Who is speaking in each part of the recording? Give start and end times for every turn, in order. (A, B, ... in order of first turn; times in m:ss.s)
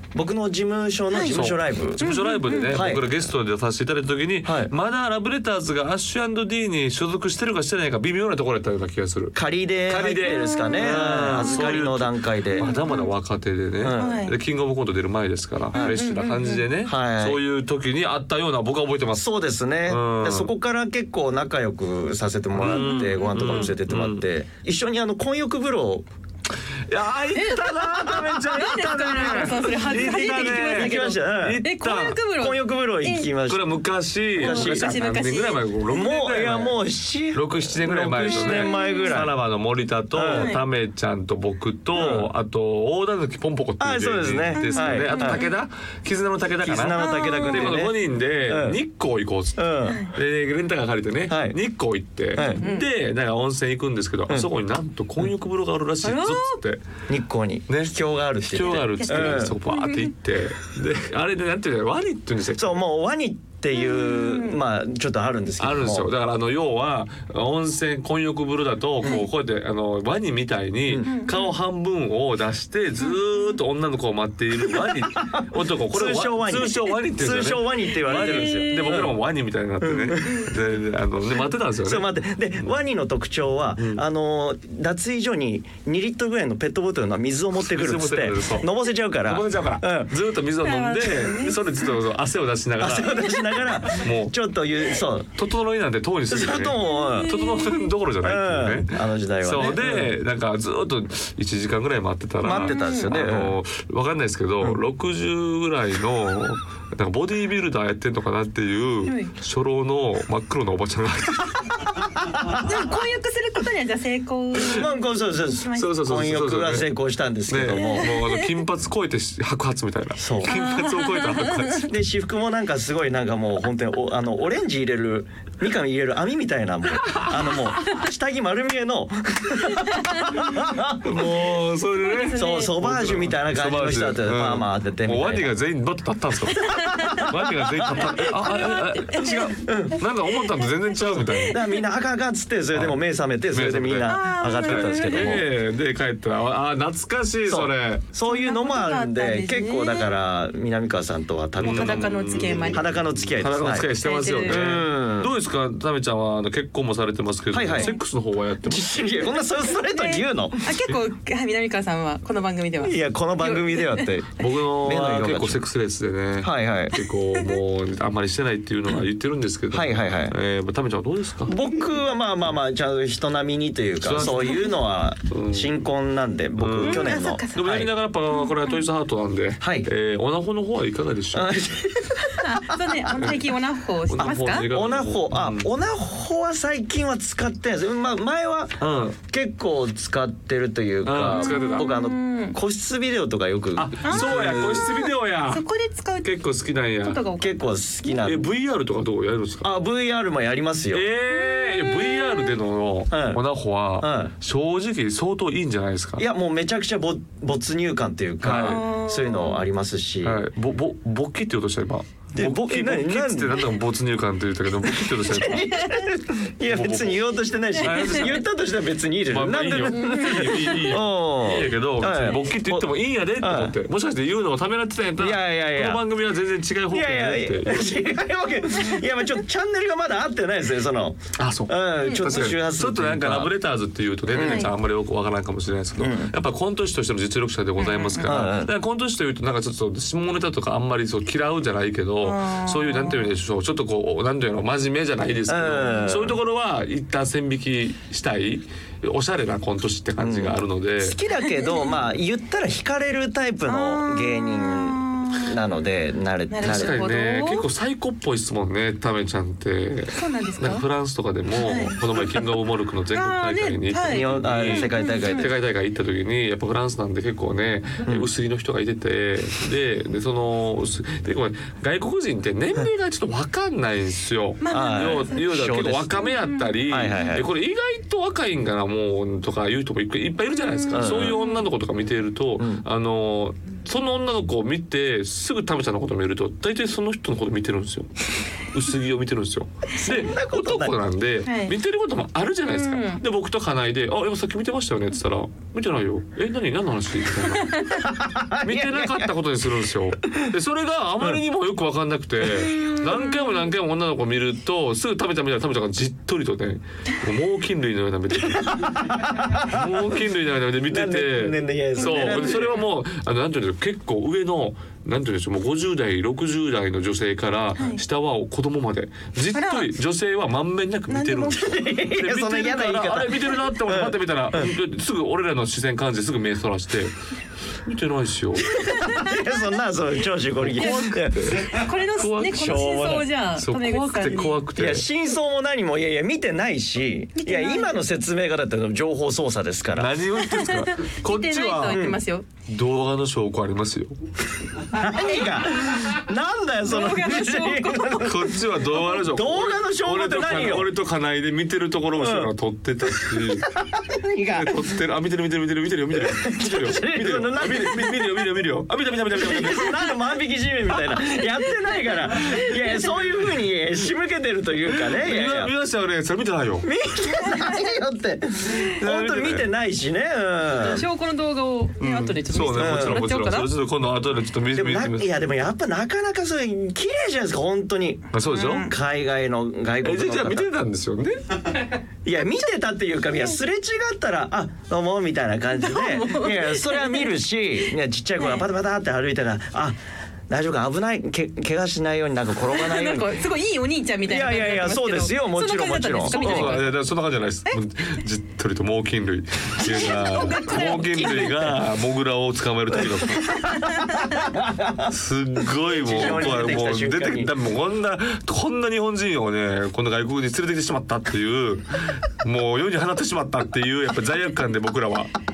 0:00.2-0:02.0 A
0:01.3-0:09.4 B
0:02.0-0:02.8 C
0:02.6-0:03.2 A
0:04.4-0:04.7 A
0:09.4-0:12.7 A
0:09.9-0:19.3 B
0:10.2-0:11.8 C
0:12.6-0:13.1 C
0:13.8-0:14.3 A
0:14.0-0:14.3 C
0:15.7-0:16.6 C
0:16.8-0:17.4 A
0:19.1-0:26.1 A
0:19.9-0:20.5 B
0:22.5-0:24.2 B
0:22.7-0:23.7 C
0:26.9-0:32.2 B
0:27.3-0:33.3 C
0:27.8-0:31.6 A
0:32.4-0:33.8 A
0:33.5-0:36.8 B
0:34.4-0:35.0 A
0:34.4-0:36.1 C
0:35.9-0:39.4 A
0:37.3-0:56.8 B
0:38.3-0:39.2 C
0:40.1-0:40.6 A
0:40.3-0:40.6 C
0:41.9-0:42.3 A
0:43.8-0:45.4 A
0:44.6-0:45.5 C
0:46.6-0:48.0 A
0:47.0-0:47.7 C
0:48.5-0:48.8 A
0:49.6-0:50.0 A
0:49.8-0:50.1 C
0:51.3-0:51.6 A
0:52.3-0:52.6 A
0:52.6-0:52.9 C
0:56.0-0:56.6 C
0:57.1-0:59.6 A
0:58.5-1:02.8 B
0:58.6-1:00.1 C
1:02.6-1:06.1 A
1:03.7-1:04.6 C
1:05.6-1:22.1 B
1:10.9-1:11.1 A
1:11.1-1:11.5 C
1:13.0-1:13.6 C
1:14.7-1:19.2 A
1:18.0-1:19.0 C
1:19.8-1:20.5 A
1:21.8-1:30.1 A
1:23.8-1:24.0 B
1:27.6-1:28.7 B
1:29.2-1:33.3 B
1:30.6-1:32.0 C
1:32.8-1:35.3 A
1:33.9-1:34.3 B
1:35.4-1:52.0 B
1:36.3-1:37.4 A
1:36.8-1:37.9 C
1:38.2-1:40.1 A
1:42.4-1:43.6 A
1:42.6-1:43.1 C
1:49.0-1:49.3 C
1:52.2-1:52.7 A
1:52.5-1:56.0 C
1:54.6-1:58.1 A
1:55.6-1:56.9 B
1:57.5-2:01.9 B
1:57.7-1:58.5 C
2:00.2-2:00.6 A
2:00.4-2:01.8 C
2:01.8-2:11.5 A
2:07.1-2:07.6 B
2:09.6-2:10.5 C
2:11.0-2:21.6 B
2:12.0-2:12.8 C
2:12.3-2:15.5 A
2:16.7-2:17.3 C
2:16.7-2:18.2 A
2:18.2-2:19.5 C
2:19.6-2:20.0 A
2:21.1-2:21.4 C
2:21.5-2:25.5 A
2:22.7-2:23.0 B
2:23.5-2:28.0 B
2:24.1-2:25.4 C
2:27.5-2:35.3 A
2:28.2-2:30.1 C
2:31.6-2:32.9 C
2:31.6-2:39.0 B
2:34.0-2:34.6 C
2:37.5-2:37.9 A
2:38.6-2:40.8 A
2:39.8-2:44.1 C
2:42.8-2:45.6 A
2:44.4-2:51.6 B
2:46.4-2:47.0 A
2:49.7-2:50.4 A
2:51.5-2:57.9 A
2:54.0-2:54.7 B
2:55.3-2:55.8 B
2:56.6-3:01.5 B
2:56.8-2:57.7 C
2:58.3-2:58.8 C
2:59.6-2:59.9 A
3:01.3-3:03.1 A
3:02.4-3:04.7 C
3:03.2-3:03.4 B
3:04.1-3:05.7 B
3:04.7-3:14.9 A
3:08.8-3:09.2 B
3:11.0-3:11.9 B
3:11.3-3:12.6 C
3:13.8-3:15.6 B
3:14.0-3:16.4 C
3:16.2-3:17.2 B
3:17.0-3:18.2 C
3:17.4-3:18.5 A
3:18.2-3:19.7 B
3:19.6-3:21.0 A
3:20.9-3:26.2 B
3:21.3-3:22.6 C
3:23.1-3:23.4 A
3:24.0-3:24.3 A
3:26.2-3:30.4 A
3:28.4-3:28.8 B
3:28.6-3:29.6 C
3:30.2-3:35.7 B
3:32.3-3:33.6 A
3:34.9-3:43.8 A
3:36.7-3:37.2 B
3:37.8-3:38.4 B
3:39.3-3:47.9 B
3:40.0-3:40.8 C
3:45.2-3:46.0 A
3:46.9-3:53.5 A
3:51.4-4:11.2 B
3:52.0-3:52.4 C
3:54.3-3:54.7 A
3:54.4-3:54.7 C
3:56.0-3:56.3 A
3:57.8-3:58.3 C
3:58.2-3:58.7 A
4:02.2-4:03.3 C
4:05.5-4:06.4 A
4:10.2-4:17.0 A
4:11.4-4:11.9 C
4:13.7-4:15.5 C
4:16.5-4:17.7 C
4:16.6-4:57.9 B
4:20.1-4:20.9 C
4:21.6-4:22.0 C
4:23.1-4:25.5 C
4:24.0-4:25.5 A
4:34.6-4:35.4 C
4:34.7-4:36.2 A
4:36.2-4:37.4 C
4:36.9-4:37.5 A
4:40.7-4:41.6 C
4:40.9-4:41.4 A
4:42.6-4:42.8 A
4:50.0-4:51.0 A
4:51.4-4:51.7 C
4:52.7-4:53.2 C
4:57.6-4:58.1 C
4:58.0-4:59.3 A
4:58.6-5:27.1 B
5:02.5-5:03.7 C
5:08.6-5:09.9 A
5:10.9-5:12.8 A
5:12.0-5:12.8 C
5:19.5-5:19.9 C
5:21.1-5:21.8 C
5:21.5-5:24.7 A
5:27.9-5:28.7 B
5:28.7-5:29.4 C
5:28.7-5:31.8 A
5:30.6-5:35.1 B
5:30.8-5:34.6 C
5:32.6-5:33.2 A
5:34.8-5:40.2 A
5:37.4-5:38.0 C
5:39.9-5:42.1 B
5:40.4-5:42.5 C
5:41.9-5:42.2 A
5:42.7-5:44.2 B
5:44.8-5:50.9 A
5:46.9-5:48.4 C
5:48.2-5:53.7 B
5:52.2-5:52.5 A
5:53.1-5:54.9 A
5:54.6-6:00.0 B
5:56.2-5:58.5 A
5:59.3-6:05.7 A
6:04.9-6:06.9 B
6:06.8-6:11.0 A
6:07.4-6:07.8 C
6:09.0-6:09.7 B
6:10.8-6:13.7 C
6:12.0-6:15.3 B
6:12.7-6:13.3 A
6:14.7-6:20.7 A
6:18.3-6:18.9 B
6:18.5-6:18.9 C
6:20.0-6:21.6 B
6:22.2-6:30.0 A
6:25.7-6:27.3 C
6:30.5-6:33.3 A
6:32.7-6:36.9 C
6:34.3-6:36.8 A
6:36.3-6:43.8 B
6:39.8-6:41.7 C
6:43.4-6:44.5 C
6:44.4-6:45.1 A
6:45.1-6:55.3 B
6:46.0-6:47.5 A